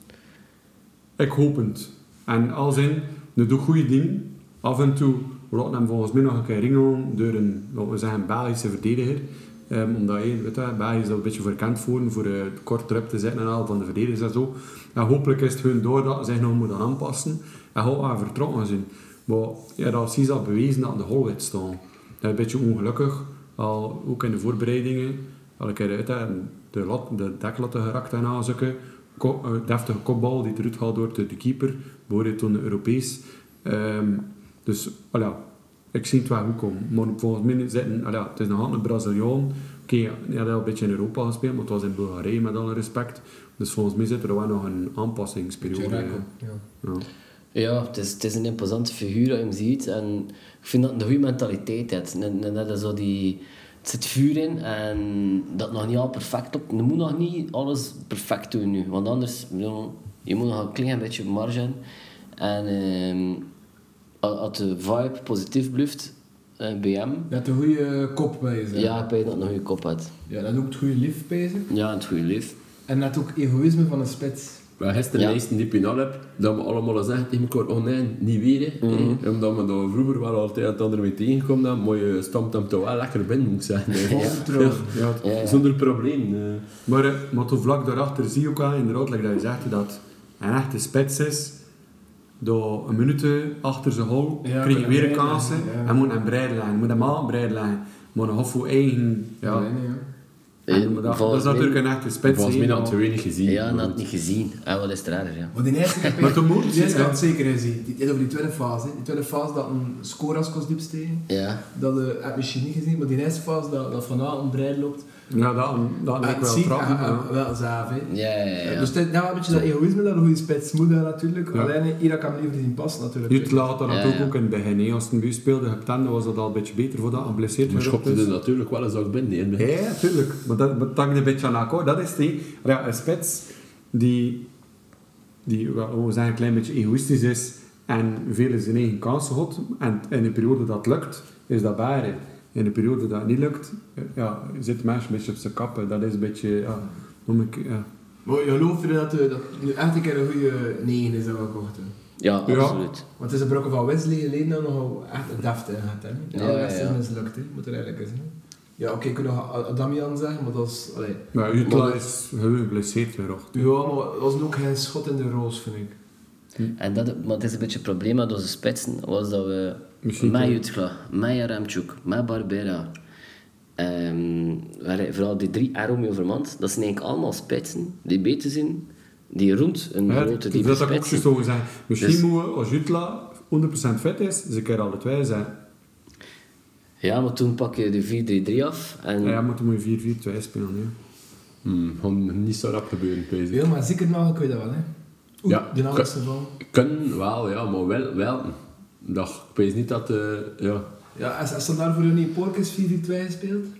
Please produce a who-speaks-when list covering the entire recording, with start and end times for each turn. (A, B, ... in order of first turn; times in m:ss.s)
0:01.2-0:46.2 A
0:45.6-0:46.6 B
0:47.5-1:01.8 C
1:02.4-1:03.4 C
1:04.2-1:07.3 C
1:07.3-1:09.0 B
1:08.7-1:10.1 C
1:10.3-1:11.7 B
1:11.7-1:12.6 C
1:12.9-1:14.6 B
1:14.8-1:26.6 D
1:18.8-1:19.2 C
1:24.0-1:25.0 B
1:24.1-1:24.4 C
1:24.9-1:25.2 A
1:25.2-1:25.6 C
1:26.8-1:31.6 A
1:32.4-1:39.7 A
1:34.4-1:35.9 B
1:39.4-1:40.1 B
1:40.7-1:41.8 C
1:40.7-1:43.0 A
1:42.2-1:44.0 D
1:43.4-1:46.2 C
1:45.5-1:55.0 B
1:46.2-1:47.2 A
1:51.3-1:51.6 C
1:55.3-1:57.3 A
1:56.2-1:58.1 B
1:58.1-1:58.9 C
1:58.6-2:03.7 B
2:03.3-2:08.3 A
2:03.9-2:04.3 C
2:07.7-2:09.7 D
2:09.6-2:14.5 A
2:15.4-2:27.9 A
2:28.2-2:31.9 B
2:32.2-2:33.0 C
2:32.4-2:32.8 A
2:33.2-2:41.9 B
2:36.3-2:37.0 C
2:41.3-2:43.7 A
2:41.6-2:42.0 C
2:43.5-2:46.0 B
2:46.8-2:52.9 C
2:50.0-2:50.6 A
2:53.8-3:01.3 C
3:00.1-3:05.6 A
3:07.0-3:09.4 C
3:09.2-3:10.9 A
3:11.6-3:13.6 D
3:13.5-3:14.9 B
3:15.4-3:16.5 B
3:15.5-3:16.1 D
3:16.6-3:20.8 D
3:21.1-3:23.7 B